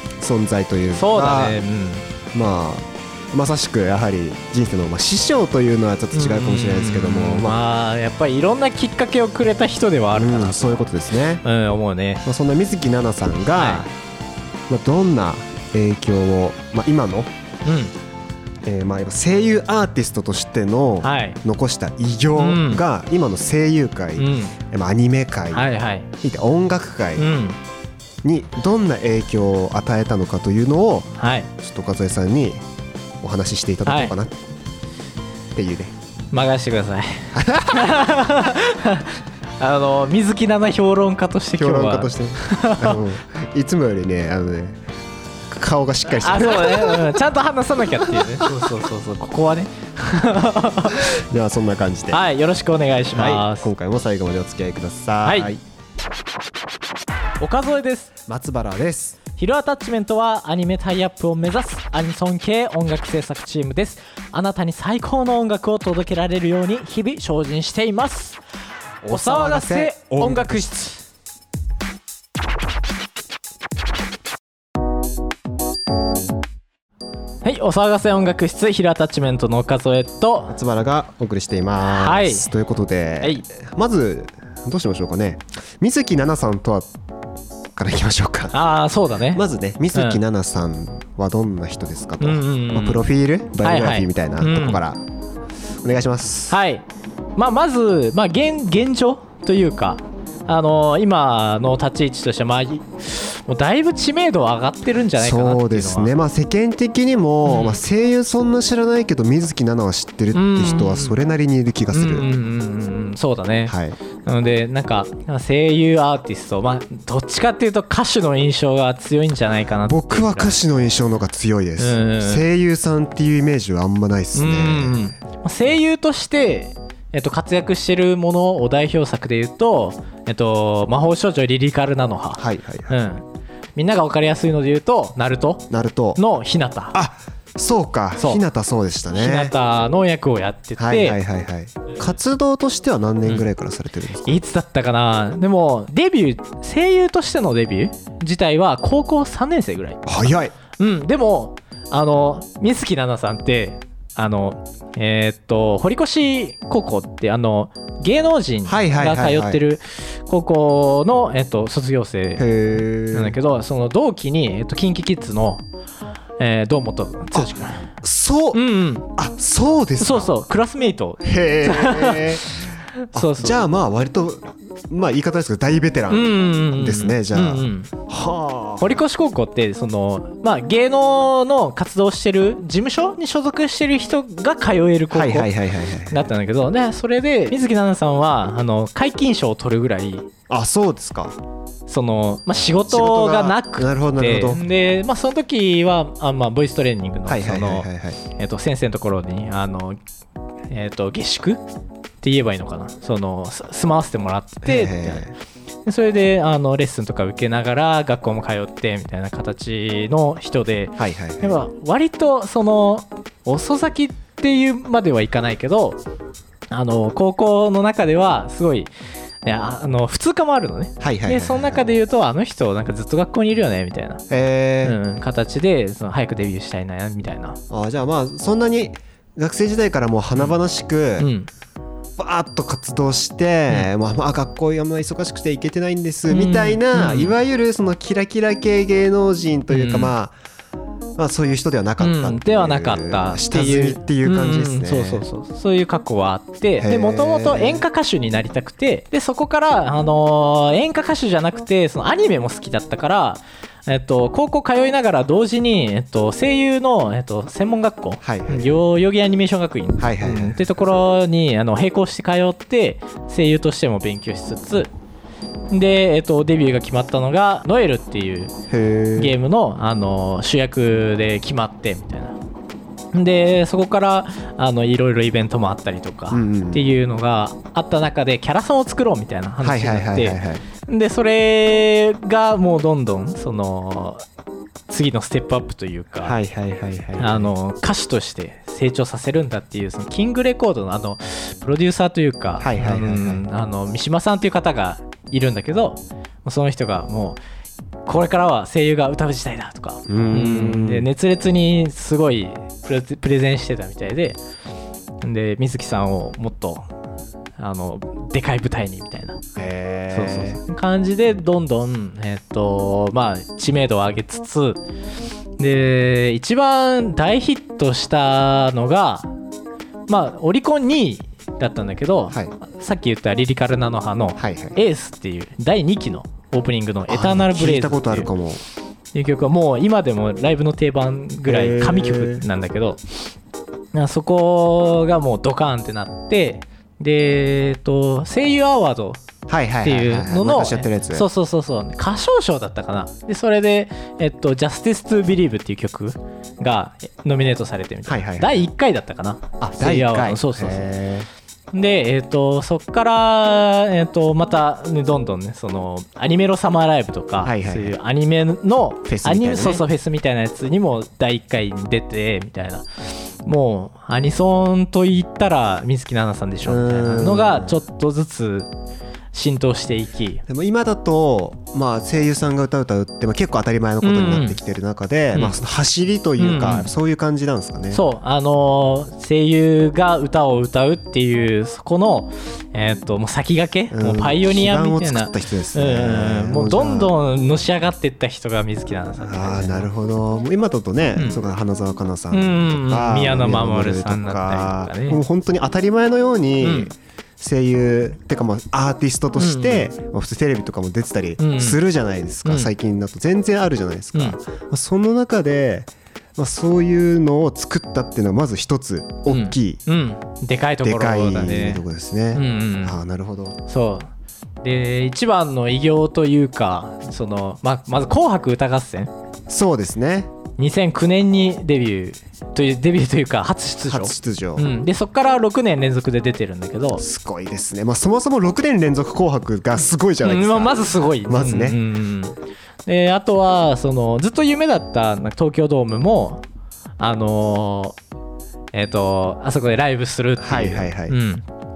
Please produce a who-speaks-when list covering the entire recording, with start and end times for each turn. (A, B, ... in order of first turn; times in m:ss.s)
0:00.2-0:01.6 A
0:01.0-0:02.1 B
0:02.3-0:07.6 A
0:06.1-0:10.8 B
0:10.2-0:11.4 A
0:11.4-0:12.2 B
0:12.2-0:13.9 A
0:13.6-0:13.9 B
0:14.7-0:17.3 A
0:17.6-0:17.9 B
0:18.6-0:27.3 A
0:21.0-0:21.4 B
0:22.4-0:22.8 B
0:24.2-0:24.6 B
0:25.5-0:26.1 B
0:27.2-0:27.6 B
0:28.2-0:32.6 A
0:31.2-0:31.5 B
0:33.2-0:34.4 A
0:33.9-0:34.2 B
0:35.5-0:35.9 A
0:36.3-0:43.0 B
0:37.3-0:38.2 A
0:41.6-0:44.8 A
0:45.5-0:47.2 A
0:46.2-0:51.2 B
0:48.0-0:48.5 A
0:50.9-0:52.2 A
0:52.1-0:53.7 B
0:53.1-0:55.6 A
0:55.2-0:55.5 B
0:57.4-0:58.1 B
0:58.3-0:59.2 A
0:59.4-1:08.4 B
1:09.0-1:10.8 A
1:09.1-1:11.0 B
1:17.4-1:20.6 B
1:20.5-1:26.9 A
1:21.8-1:22.5 B
1:27.8-1:28.6 A
1:28.5-1:29.4 B
1:29.3-1:35.0 A
1:29.9-1:30.2 B
1:32.2-1:33.0 B
1:33.6-1:34.8 B
1:35.8-1:36.6 A
1:36.5-1:36.8 B
1:37.4-1:46.1 B
1:45.2-1:52.3 A
1:47.4-1:47.8 B
1:50.3-1:51.2 B
1:51.9-2:00.6 B
1:53.7-1:54.0 A
1:59.9-2:05.1 A
2:01.8-2:02.4 B
2:04.3-2:13.2 B
2:12.4-2:13.0 A
2:13.8-2:17.0 B
2:15.7-2:16.2 A
2:16.9-2:19.6 A
2:19.1-2:21.2 B
2:20.8-2:24.4 A
2:24.2-2:42.5 B
2:30.1-2:30.5 A
2:38.7-2:39.6 A
2:42.4-2:43.4 A
2:43.1-2:45.6 B
2:46.4-2:47.9 B
2:47.4-2:48.6 A
2:48.5-2:49.1 B
2:49.1-2:50.3 A
2:50.0-2:53.6 B
2:51.2-2:59.0 A
2:56.1-2:57.9 B
2:58.8-3:05.5 B
3:05.1-3:06.3 A
3:06.1-3:10.3 B
3:10.5-3:11.4 A
3:11.9-3:20.0 B
3:12.9-3:14.6 A
3:17.3-3:18.2 A
3:20.7-3:21.6 B
3:22.2-3:25.3 B
3:24.6-3:25.3 A
3:25.8-3:36.0 B
3:31.0-3:31.6 A
3:36.7-3:38.9 B
3:39.4-3:44.2 B
3:41.0-3:41.8 A
3:44.3-3:45.0 A
3:44.8-3:47.6 B
3:47.7-3:51.3 A
3:51.2-3:51.5 B
3:52.2-4:00.3 A
3:56.3-3:57.4 B
3:59.7-4:00.1 B
4:01.2-4:05.2 A
4:02.0-4:24.9 B
4:06.8-4:07.8 A
4:18.2-4:18.8 A
4:20.0-4:20.6 A
4:25.7-4:28.5 B
4:28.7-4:29.4 A
4:29.2-4:32.4 B
4:33.1-4:44.2 B
4:36.3-4:36.9 A
4:39.6-4:40.6 A
4:44.9-4:46.4 B
4:46.2-4:47.5 A
4:47.2-4:57.4 B
4:52.6-4:53.4 A
4:58.1-5:04.4 B
5:00.1-5:01.1 A
5:05.2-5:06.9 B
5:07.6-5:09.4 B
5:09.6-5:10.6 A
5:10.1-5:14.8 B
5:15.6-5:19.3 B
5:20.1-5:28.3 B
5:24.4-5:24.8 A
5:27.1-5:28.6 A
5:29.1-5:33.2 B
5:31.4-5:32.5 A
5:33.9-5:39.2 B
5:39.5-5:41.3 A
5:39.8-5:50.9 B
5:48.1-5:48.7 A
5:49.6-5:51.3 A
5:51.7-6:02.8 B
5:57.4-5:58.0 A
5:59.0-5:59.8 A
6:03.4-6:08.7 B
6:06.6-6:07.8 A
6:09.3-6:10.4 B
6:10.5-6:18.0 A
6:14.0-6:14.6 B
6:16.4-6:16.9 B
6:17.9-6:29.9 B
6:23.9-6:27.2 A
6:29.2-6:49.8 A
6:32.3-6:35.2 B
6:36.6-6:36.9 B
6:39.4-6:39.9 B
6:41.4-6:41.8 B
6:42.4-6:42.7 B
6:49.3-6:53.0 B
6:50.8-6:53.6 A
6:53.7-6:54.1 B
6:54.6-6:59.1 B
6:59.5-7:00.3 A
7:00.6-7:07.0 B
7:03.9-7:04.7 A
7:07.0-7:11.8 A
7:10.2-7:16.4 B
7:17.0-7:18.0 B
7:18.7-7:21.4 B
7:20.4-7:21.2 A